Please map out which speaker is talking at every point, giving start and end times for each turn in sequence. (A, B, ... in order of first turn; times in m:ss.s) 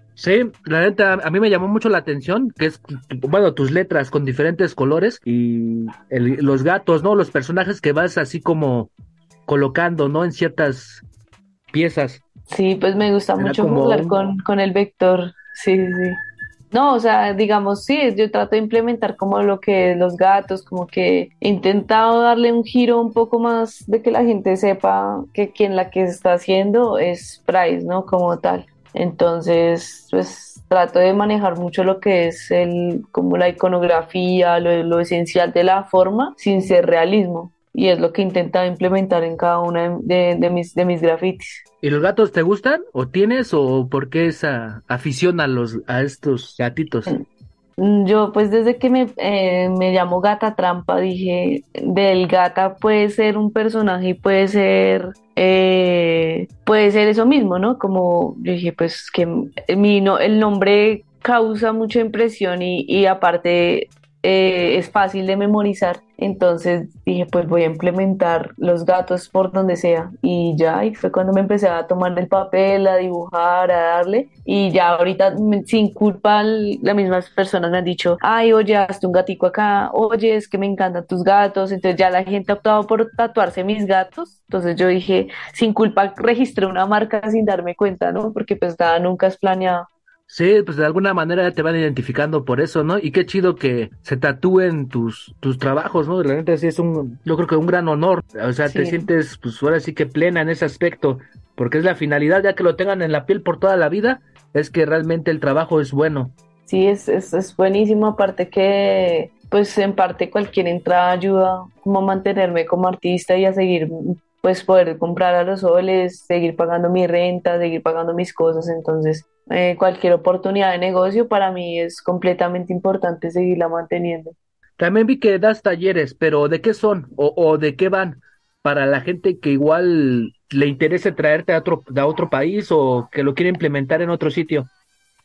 0:00.2-0:08.9 A
0:09.5-0:11.0 A
0:11.7-0:12.2 A
0:12.5-0:16.2 B
0:13.4-0:14.2 A
0:16.7-0:41.6 B
0:41.8-0:47.2 A
0:47.8-1:29.9 B
1:30.3-1:46.3 A
1:38.7-1:39.1 B
1:46.6-2:04.3 B
2:04.8-2:14.7 A